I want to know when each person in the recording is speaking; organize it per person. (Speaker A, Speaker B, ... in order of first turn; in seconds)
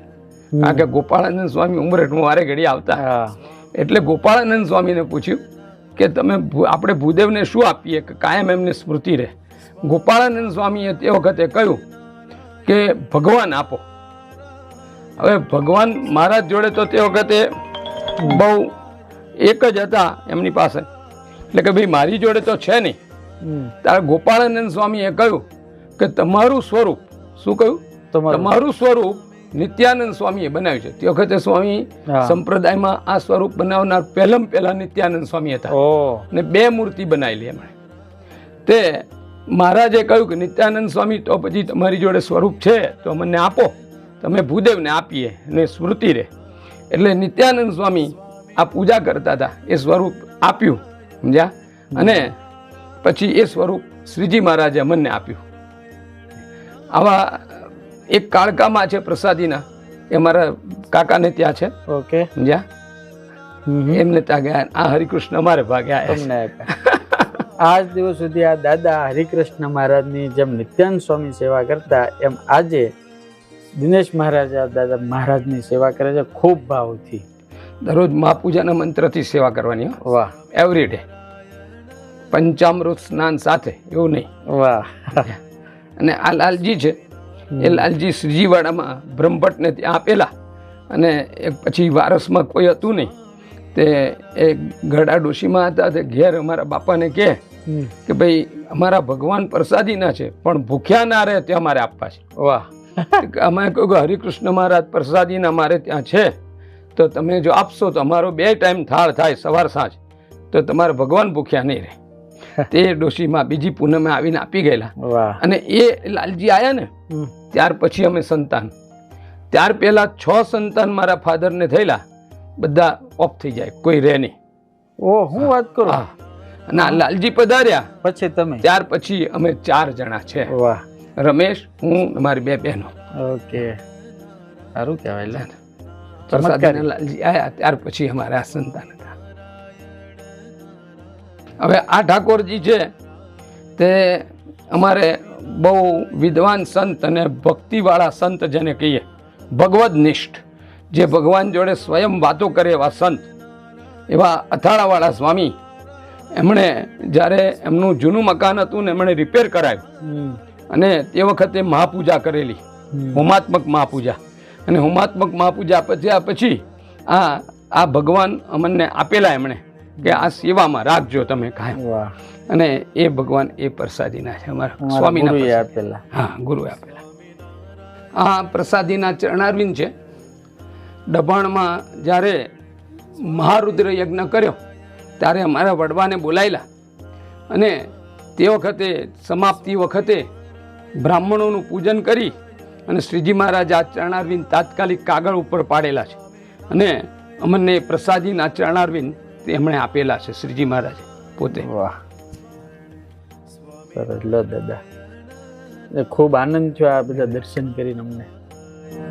Speaker A: 0.5-0.8, 3.0-3.3, 23.4-23.7, 28.1-28.5, 32.1-32.4, 35.7-36.3, 51.9-52.3, 61.9-62.3, 63.7-64.0, 66.1-66.7, 67.6-72.9, 73.8-77.2, 80.0-80.3, 84.5-85.3, 87.5-87.8, 102.4-103.2, 115.0-115.4, 125.0-126.0, 128.0-128.7, 130.5-130.8, 133.2-133.8, 134.8-135.5, 136.3-136.8, 160.0-160.4, 162.9-163.2, 171.8-172.1, 174.8-176.0, 201.5-202.0, 203.9-204.8, 206.0-208.3
Speaker B: 0.6-3.0, 3.8-5.4, 6.0-9.3, 9.8-11.8, 12.6-13.8, 15.2-17.4, 18.2-18.7, 19.4-20.9, 21.5-23.0, 23.8-25.4, 26.0-35.7, 36.3-37.7, 38.7-46.3, 46.9-52.3, 53.0-55.4, 56.9-61.7, 62.4-62.6, 63.9-67.4, 77.8-80.0, 80.5-81.0, 82.3-84.3, 86.0-86.9, 87.6-90.3, 90.9-93.1, 93.7-97.4, 98.0-102.2, 103.2-106.3, 106.9-110.0, 110.5-112.0, 112.7-116.9, 117.5-118.7, 119.5-122.0, 122.6-124.3, 125.4-126.1, 126.7-127.9, 128.6-130.5, 131.2-132.9, 136.3-139.2, 141.6-142.8, 143.8-149.0, 149.5-153.3, 154.1-155.5, 156.4-159.8, 160.7-162.6, 163.1-171.8, 172.5-177.0, 178.2-179.9, 181.1-182.4, 183.2-184.6, 185.2-186.6, 187.5-187.8, 188.4-190.2, 191.0-192.3, 192.9-196.2, 196.7-201.7